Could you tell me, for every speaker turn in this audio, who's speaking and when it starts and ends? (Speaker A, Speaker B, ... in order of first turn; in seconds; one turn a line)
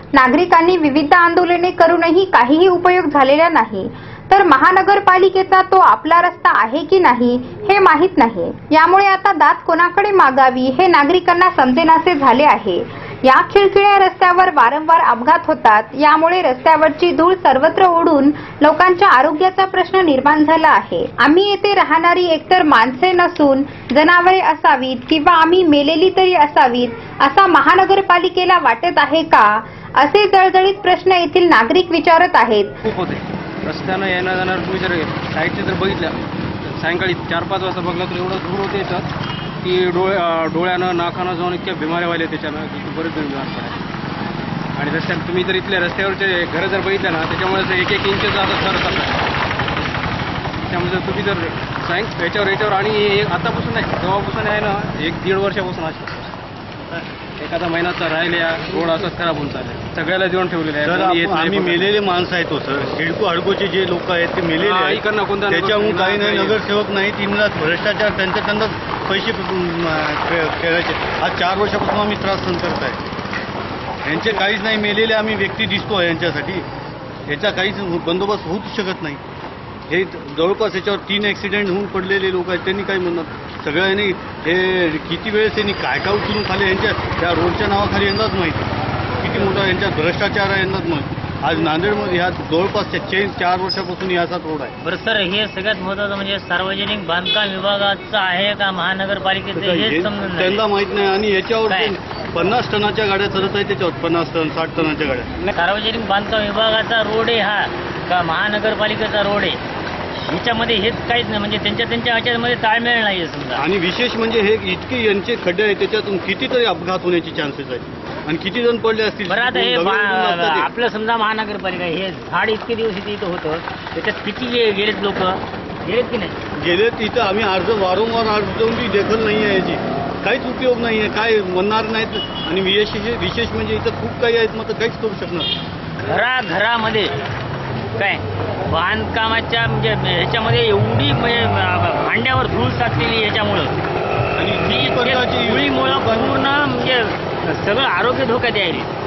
Speaker A: 0.1-32.7
Speaker B: 32.9-39.1
Speaker B: 39.6-43.8
Speaker B: 44.8-49.2
Speaker B: 50.7-56.3
Speaker B: 57.4-62.0
Speaker C: 60.8-73.0
Speaker B: 64.6-66.7
Speaker C: 74.0-76.7
Speaker B: 74.2-74.5
Speaker C: 77.3-79.2
Speaker C: 79.9-94.7
Speaker D: 94.8-100.6
Speaker C: 99.5-105.5
Speaker D: 101.7-102.0
Speaker D: 105.5-109.6
Speaker D: 110.3-113.7
Speaker C: 113.6-120.7
Speaker D: 119.2-126.4
Speaker C: 126.6-135.5
Speaker D: 136.1-137.1
Speaker D: 138.0-143.7
Speaker C: 144.4-146.4
Speaker D: 144.6-148.9